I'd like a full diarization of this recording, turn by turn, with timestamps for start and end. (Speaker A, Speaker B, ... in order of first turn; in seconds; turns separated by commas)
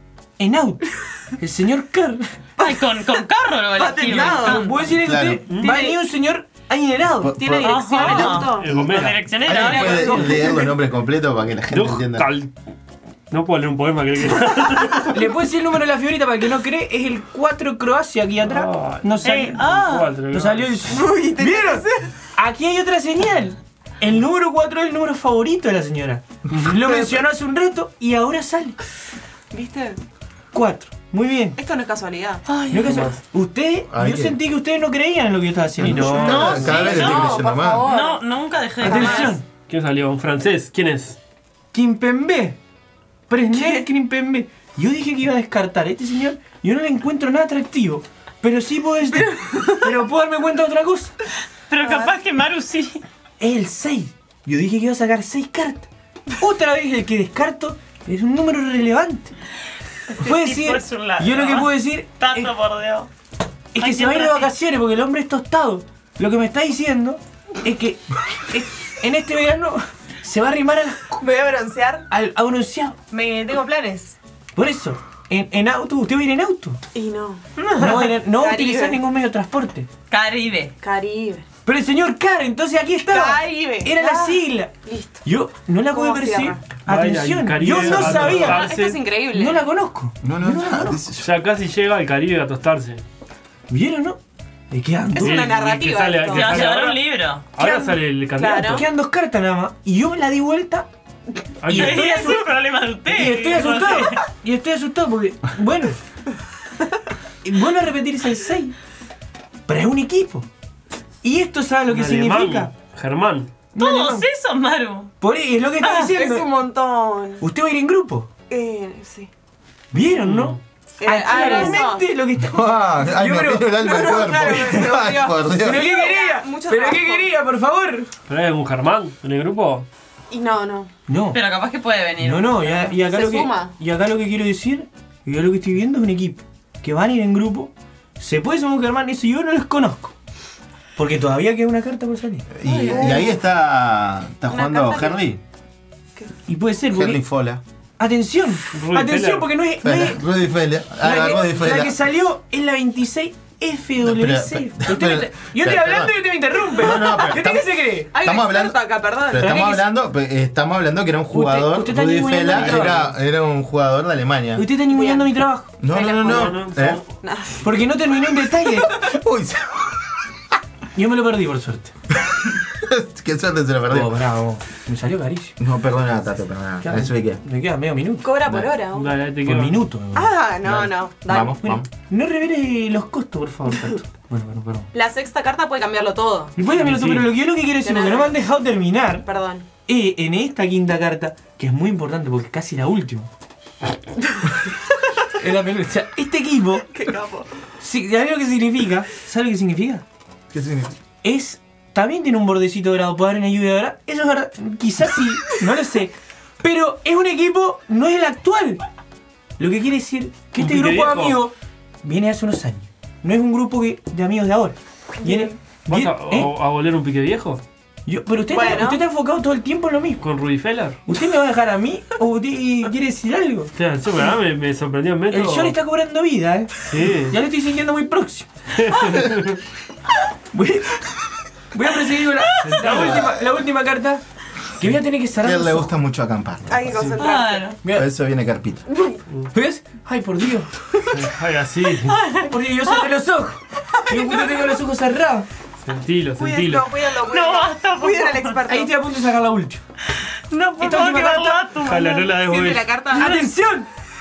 Speaker A: 0.4-2.3, Speaker B: 2.6-4.8, Speaker C: 3.7-4.7, Speaker A: 4.0-8.1, Speaker D: 4.8-5.5, Speaker E: 5.5-5.8, Speaker C: 5.6-6.0, Speaker D: 7.2-12.3, Speaker C: 7.4-8.7, Speaker B: 7.6-10.3, Speaker E: 8.0-9.4, Speaker A: 9.6-10.5, Speaker E: 9.9-10.2, Speaker C: 9.9-10.7, Speaker E: 11.7-12.5, Speaker E: 13.3-15.2, Speaker A: 15.1-19.7, Speaker E: 18.4-20.9, Speaker B: 19.2-20.2, Speaker A: 20.3-28.8, Speaker C: 20.9-22.1, Speaker E: 26.5-26.8, Speaker C: 29.5-30.0, Speaker A: 30.5-31.6, Speaker C: 31.6-32.5, Speaker B: 32.5-33.1, Speaker A: 32.7-36.5, Speaker E: 32.9-33.1, Speaker D: 33.9-34.4, Speaker D: 35.8-37.9, Speaker E: 35.8-36.9, Speaker B: 36.1-39.4, Speaker C: 36.3-38.2, Speaker C: 38.8-39.4, Speaker A: 38.8-39.4, Speaker E: 38.9-41.2, Speaker A: 41.7-42.6, Speaker A: 43.3-51.1, Speaker C: 43.5-43.9, Speaker C: 49.2-49.8, Speaker B: 51.7-53.0, Speaker C: 51.8-52.1, Speaker A: 53.4-59.3, Speaker B: 60.1-63.1, Speaker A: 60.1-62.5, Speaker A: 63.7-71.2, Speaker B: 63.8-64.5, Speaker C: 71.2-72.1, Speaker A: 72.1-73.0, Speaker C: 73.1-74.2, Speaker A: 74.5-76.8, Speaker C: 76.9-79.0, Speaker B: 77.6-77.9, Speaker A: 77.8-79.9, Speaker B: 80.1-80.7, Speaker C: 80.8-81.5, Speaker A: 81.6-84.7, Speaker C: 83.1-85.2, Speaker A: 85.2-88.7, Speaker C: 85.9-86.7, Speaker E: 86.8-89.0, Speaker C: 87.9-89.7, Speaker A: 89.3-91.0, Speaker D: 90.2-91.3, Speaker E: 91.2-93.0, Speaker A: 93.7-95.6, Speaker C: 95.1-96.8, Speaker E: 95.2-98.8, Speaker B: 96.2-97.5, Speaker C: 97.6-98.8, Speaker A: 98.5-100.9, Speaker E: 101.6-102.3, Speaker A: 101.6-106.0, Speaker B: 101.7-104.2, Speaker A: 107.4-108.8, Speaker A: 109.7-110.5, Speaker A: 111.2-112.7, Speaker E: 111.9-113.6, Speaker A: 113.7-114.3, Speaker B: 113.8-115.1, Speaker A: 115.2-116.5, Speaker B: 115.8-116.1, Speaker C: 115.9-117.4, Speaker A: 117.4-118.3, Speaker C: 118.5-119.3, Speaker A: 119.9-124.9, Speaker E: 120.2-120.6, Speaker C: 121.0-122.1, Speaker B: 121.3-121.8, Speaker D: 122.4-125.9, Speaker C: 123.7-127.3, Speaker A: 125.5-128.1, Speaker E: 128.3-129.9, Speaker C: 130.3-130.9, Speaker A: 131.1-131.4, Speaker B: 131.3-132.9, Speaker A: 132.2-140.1, Speaker C: 132.8-133.7, Speaker A: 140.9-142.5, Speaker D: 142.5-145.4, Speaker B: 142.7-143.2, Speaker C: 142.7-143.3, Speaker C: 144.5-145.2, Speaker A: 146.5-147.2, Speaker D: 146.9-147.6, Speaker A: 148.0-150.2, Speaker E: 148.7-149.6, Speaker D: 149.8-152.0, Speaker A: 151.0-158.1, Speaker D: 154.0-164.7, Speaker C: 157.0-157.4, Speaker C: 158.1-159.8, Speaker A: 159.4-159.7, Speaker A: 161.3-163.1, Speaker A: 164.6-165.7, Speaker C: 164.8-166.6, Speaker D: 165.8-167.0, Speaker E: 166.2-167.2, Speaker C: 167.2-167.7, Speaker A: 167.6-168.9, Speaker D: 168.8-170.2, Speaker A: 170.9-171.9, Speaker D: 172.4-174.2, Speaker A: 173.9-175.6, Speaker D: 175.6-177.4, Speaker A: 176.8-178.3, Speaker C: 178.2-179.2, Speaker D: 178.4-178.7, Speaker E: 178.9-179.8, Speaker A: 179.4-180.3, Speaker C: 180.1-181.8, Speaker D: 180.6-181.9, Speaker A: 181.6-184.9, Speaker C: 184.9-186.6, Speaker A: 186.6-189.2, Speaker E: 186.8-187.3, Speaker C: 187.8-188.5, Speaker C: 189.2-189.7, Speaker A: 189.8-193.3, Speaker A: 195.3-196.9, Speaker C: 196.9-197.5, Speaker A: 197.8-200.0, Speaker D: 200.5-200.9, Speaker A: 201.2-208.8, Speaker A: 209.6-216.5, Speaker E: 210.6-211.4, Speaker C: 215.2-215.5, Speaker E: 215.9-217.6, Speaker A: 218.1-220.2, Speaker C: 218.5-219.0, Speaker E: 220.2-221.0, Speaker A: 221.1-223.7, Speaker E: 223.8-225.8, Speaker A: 225.3-228.5, Speaker E: 226.8-227.4, Speaker E: 228.7-229.6, Speaker A: 230.5-231.1, Speaker A: 231.7-234.2, Speaker E: 232.6-233.3, Speaker A: 234.8-235.9, Speaker D: 235.4-237.2, Speaker C: 236.7-237.7, Speaker B: 237.2-237.8, Speaker D: 237.9-238.8, Speaker C: 238.9-239.2, Speaker A: 239.5-240.8, Speaker E: 241.1-242.3, Speaker B: 242.1-242.5, Speaker A: 242.3-245.5, Speaker C: 244.2-244.6, Speaker E: 245.8-247.0, Speaker C: 246.4-248.9, Speaker B: 247.1-248.6, Speaker A: 248.6-249.8, Speaker B: 250.5-252.3, Speaker A: 250.8-251.7, Speaker E: 251.8-253.0, Speaker C: 252.2-253.4, Speaker A: 253.1-253.9